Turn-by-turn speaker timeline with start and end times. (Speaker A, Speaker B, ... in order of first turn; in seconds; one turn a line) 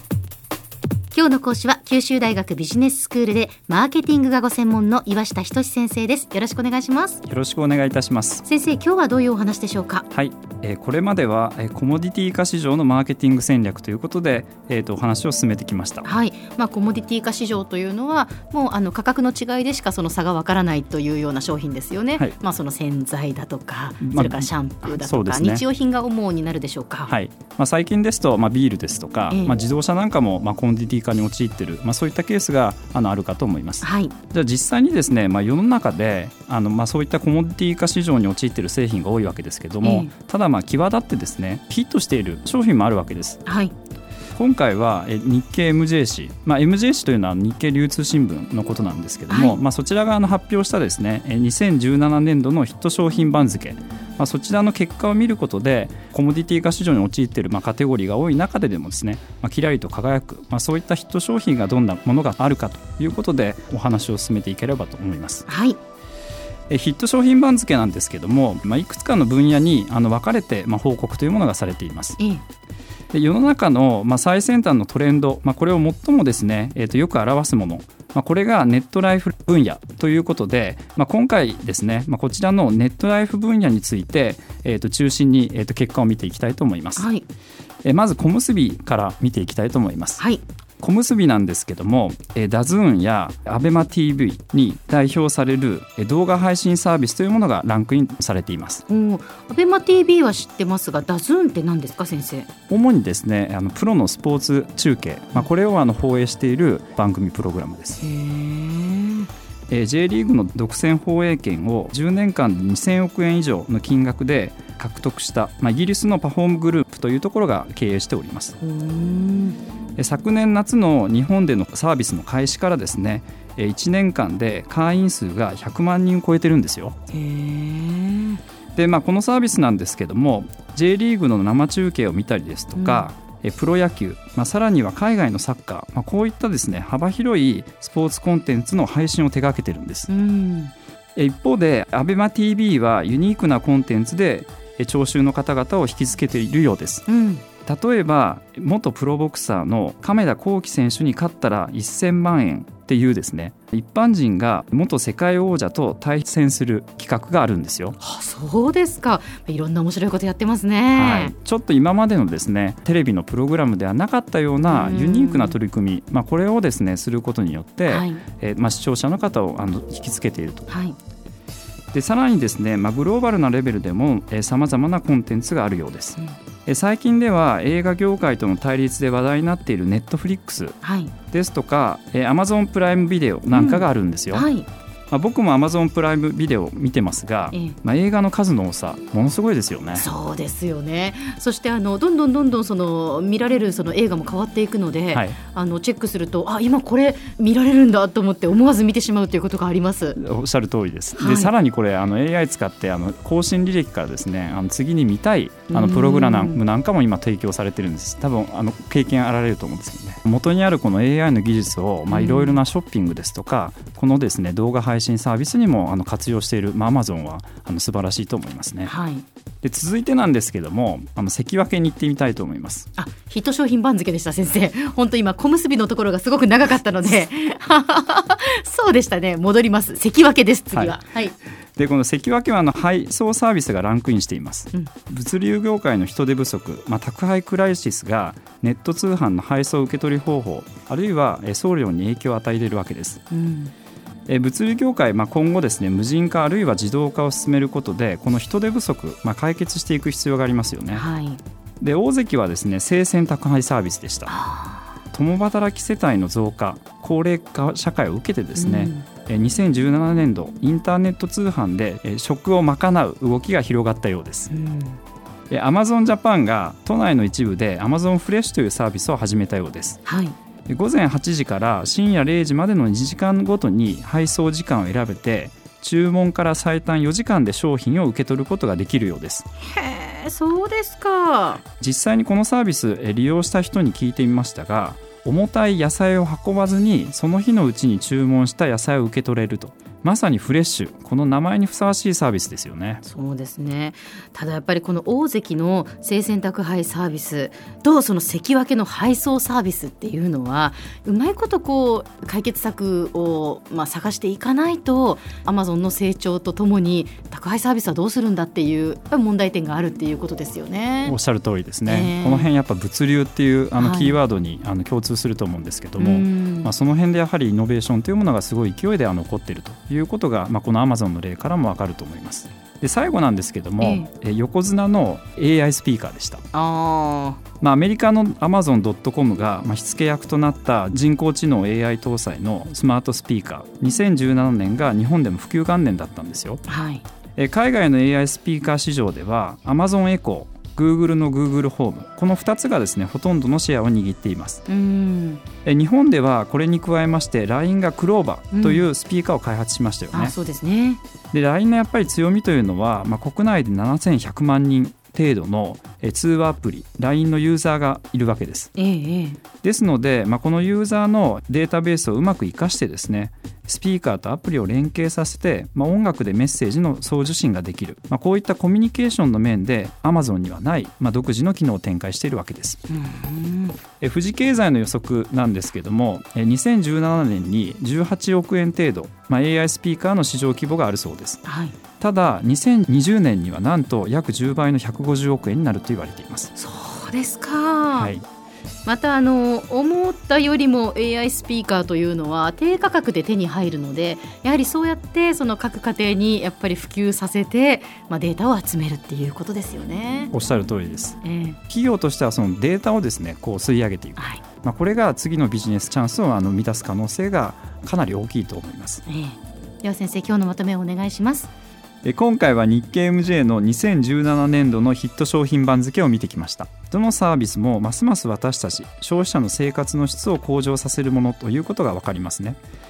Speaker A: 1.1-7.2
Speaker B: 7.2-8.4
Speaker A: 8.4-10.1
Speaker B: 10.1-16.1
Speaker A: 16.0-27.1
Speaker B: 24.0-25.6
Speaker B: 27.1-43.4
Speaker A: 29.3-29.6
Speaker A: 33.8-34.1
Speaker A: 39.8-40.1
Speaker A: 43.5-43.7
Speaker B: 44.3-65.5
Speaker A: 49.3-49.6
Speaker A: 65.5-65.8
Speaker B: 66.7-72.2
Speaker B: 73.1-87.1
Speaker A: 87.0-87.2
Speaker B: 87.8-90.2
Speaker B: 90.8-98.8
Speaker A: 98.9-102.5
Speaker B: 102.7-108.0
Speaker A: 108.0-109.3
Speaker B: 109.7-118.5
Speaker A: 118.6-119.6
Speaker B: 120.0-127.0
Speaker A: 127.1-128.4
Speaker B: 128.8-140.1
Speaker A: 132.8-133.1
Speaker A: 140.1-140.7
Speaker B: 141.2-147.1
Speaker A: 147.1-147.4
Speaker B: 147.7-158.0
Speaker A: 158.0-161.3
Speaker B: 160.9-170.7
Speaker A: 164.7-165.6
Speaker A: 167.9-168.2
Speaker A: 170.7-171.0
Speaker B: 171.9-180.8
Speaker A: 180.8-181.1
Speaker B: 181.3-184.5
Speaker A: 183.5-184.7
Speaker B: 185.1-190.1
Speaker A: 187.5-187.8
Speaker A: 190.0-200.2
Speaker B: 195.1-195.4
Speaker B: 200.2-218.9
Speaker A: 201.2-201.5
Speaker A: 205.7-206.6
Speaker A: 212.1-212.6
Speaker A: 218.9-219.2
Speaker B: 219.6-222.9
Speaker A: 223.0-231.3
Speaker B: 230.7-231.0
Speaker B: 231.8-243.2
Speaker A: 243.3-243.7
Speaker B: 244.3-251.1
Speaker A: 250.9-251.4
Speaker B: 251.8-254.3
Speaker A: 254.3-254.9
Speaker B: 255.1-264.5
Speaker A: 258.6-259.1
Speaker A: 264.5-265.0
Speaker B: 265.5-270.0
Speaker A: 270.1-270.4
Speaker B: 270.7-279.4
Speaker A: 279.6-281.6
Speaker B: 281.8-293.0
Speaker A: 293.0-311.2
Speaker B: 311.1-326.4
Speaker A: 311.9-312.5
Speaker A: 313.8-314.2
Speaker A: 316.0-316.7
Speaker A: 323.8-324.1
Speaker A: 326.5-327.4
Speaker B: 327.6-336.6
Speaker A: 336.7-337.0
Speaker B: 337.4-344.6
Speaker A: 344.7-345.4
Speaker B: 345.6-350.4
Speaker A: 348.5-348.9
Speaker A: 350.1-351.0
Speaker B: 351.3-358.7
Speaker A: 358.8-359.4
Speaker B: 359.6-372.8
Speaker A: 372.9-373.8
Speaker B: 374.0-381.4
Speaker A: 381.4-381.8
Speaker B: 382.0-386.5
Speaker A: 386.6-388.1
Speaker B: 388.0-388.2
Speaker A: 388.9-400.3
Speaker B: 400.3-409.0
Speaker A: 401.2-401.6
Speaker A: 404.2-404.4
Speaker A: 409.1-411.5
Speaker B: 412.0-422.6